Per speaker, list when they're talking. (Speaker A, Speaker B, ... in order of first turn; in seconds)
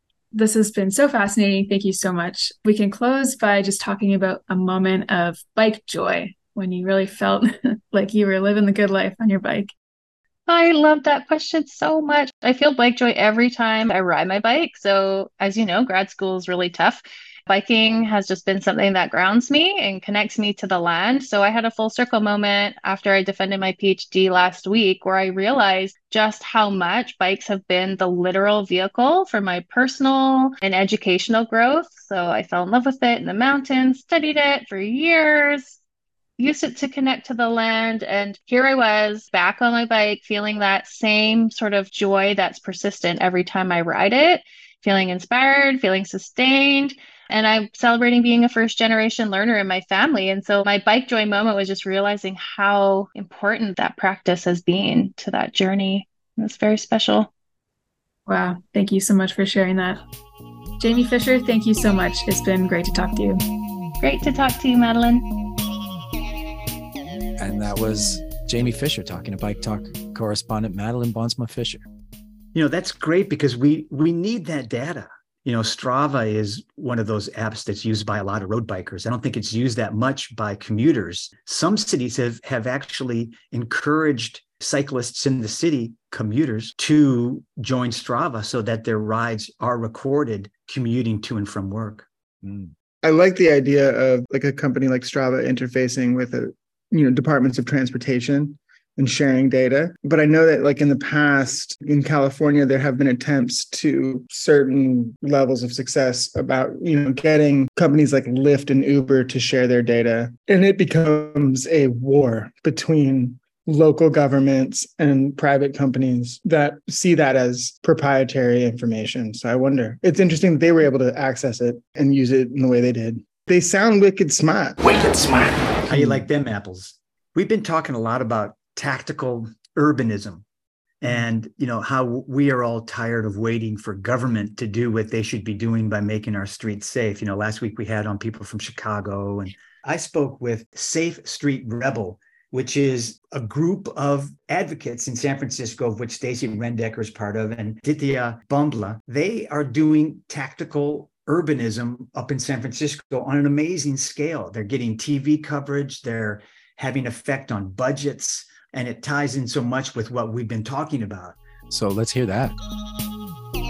Speaker A: 0.3-9.7, 58.2-60.0, 60.8-63.4
Speaker B: 10.5-35.8, 36.4-57.3, 64.0-65.2
Speaker C: 67.4-71.9, 92.4-92.7, 125.0-126.1, 161.7-162.6
Speaker D: 72.5-92.1, 125.9-130.4, 131.0-161.4
Speaker E: 93.0-124.8